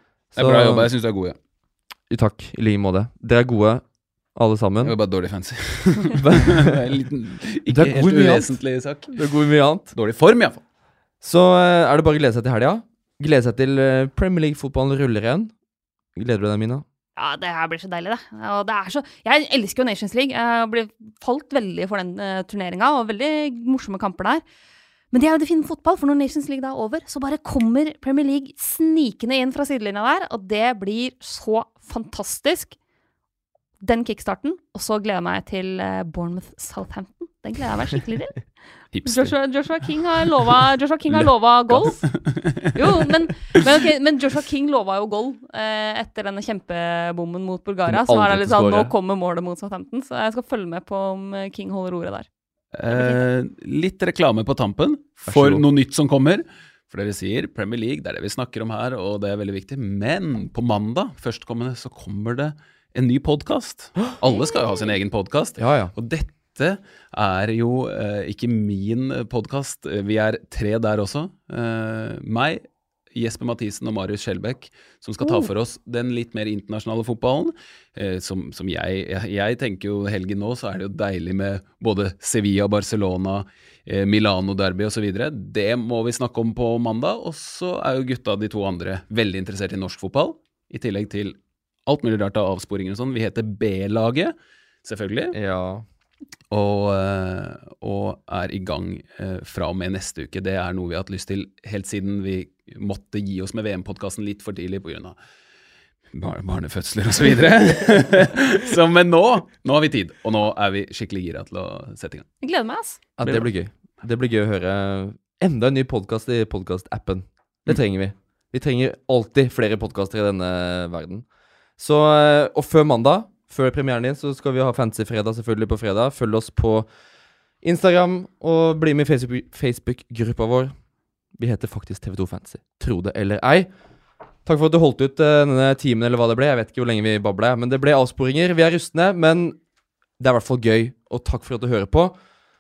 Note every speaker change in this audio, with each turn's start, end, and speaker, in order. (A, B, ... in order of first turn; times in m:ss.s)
0:00.4-0:00.9 A
0:00.4-0:01.4 B
0:02.1-0:05.0 A
0:04.8-0:09.3 B
0:06.2-0:06.8 A
0:07.7-0:08.6 A
0:09.1-0:09.9 A
0:09.9-0:10.6 B
0:11.2-0:15.5 A
0:16.2-0:16.8 A
0:17.2-0:24.4 C
0:25.1-0:32.8 C
0:33.8-0:38.4 C
0:38.9-0:39.4 B
0:39.0-0:42.2 C
0:41.2-0:43.0 B
0:42.7-0:52.3 C
0:47.9-0:48.9 A
0:52.7-1:35.4 B
0:52.9-0:53.2 C
0:55.3-0:55.6 A
1:05.6-1:05.9 A
1:35.3-1:35.8 A
1:36.5-1:45.2 B
1:46.1-1:52.3 B
1:52.4-1:53.0 C
1:53.2-2:01.2 A
1:53.2-1:53.5 B
2:01.8-2:06.9 A
2:07.6-2:10.7 A
2:11.4-2:13.7 A
2:14.4-2:19.6 A
2:20.2-2:22.2 A